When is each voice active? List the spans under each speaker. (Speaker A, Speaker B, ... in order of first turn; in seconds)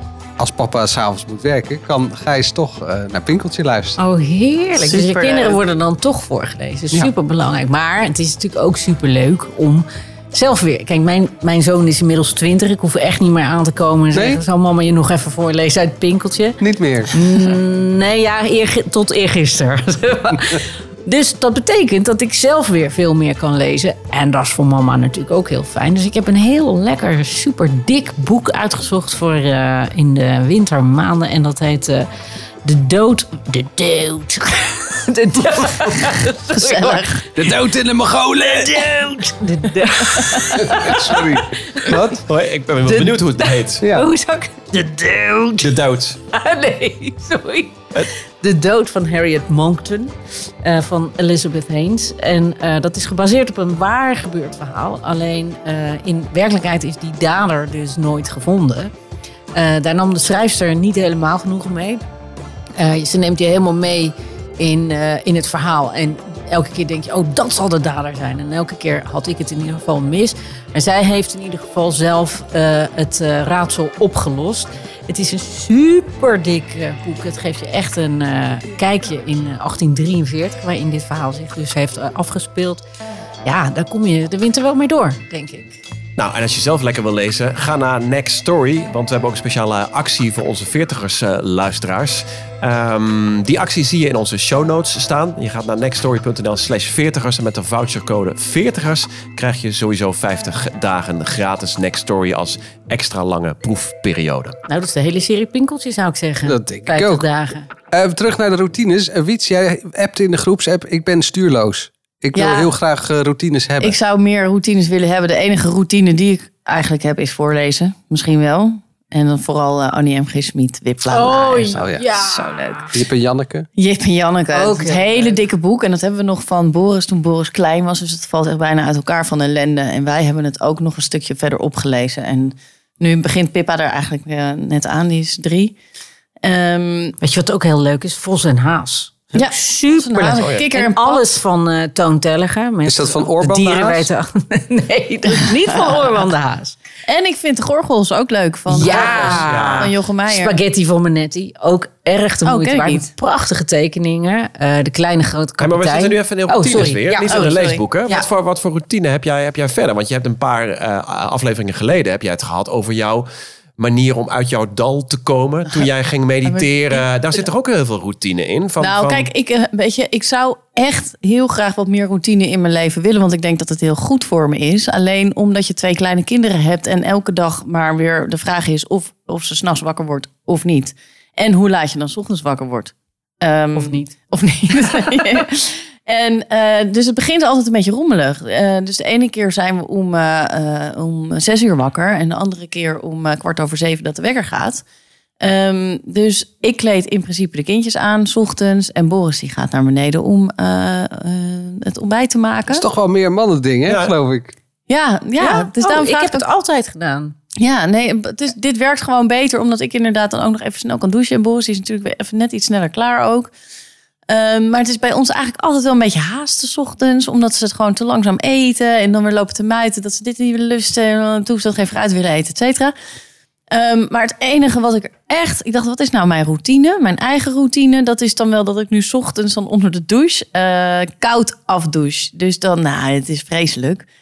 Speaker A: 0.4-4.0, 14.1-14.4, 16.6-17.2, 37.3-39.2, 40.1-42.2, 43.8-44.1, 106.4-107.2, 107.9-114.0, 121.8-122.0, 122.9-123.7, 142.8-144.1, 202.7-204.5
Speaker B: 4.0-16.6, 17.1-32.1, 32.6-37.5, 38.4-42.2, 42.8-45.7, 46.3-47.8, 48.4-58.9, 59.5-62.0, 62.8-82.8, 83.4-85.8, 104.7-107.7, 121.1-122.9, 124.5-125.4, 137.2-146.8, 148.7-157.4, 183.7-184.1, 205.4-207.3
Speaker C: 4.8-5.6, 36.5-37.2, 112.3-112.7, 113.8-122.9, 123.8-135.8, 136.4-137.2, 139.3-141.2, 147.1-150.6, 152.4-153.1, 157.3-157.8, 166.4-167.4, 168.8-194.8, 195.4-202.8, 204.9-206.4, 207.6-213.5, 214.3-222.9, 223.7-234.0
Speaker D: 42.2-43.8, 45.6-46.2, 86.2-104.6, 140.3-140.6, 148.8-149.9, 155.6-169.3, 203.8-204.1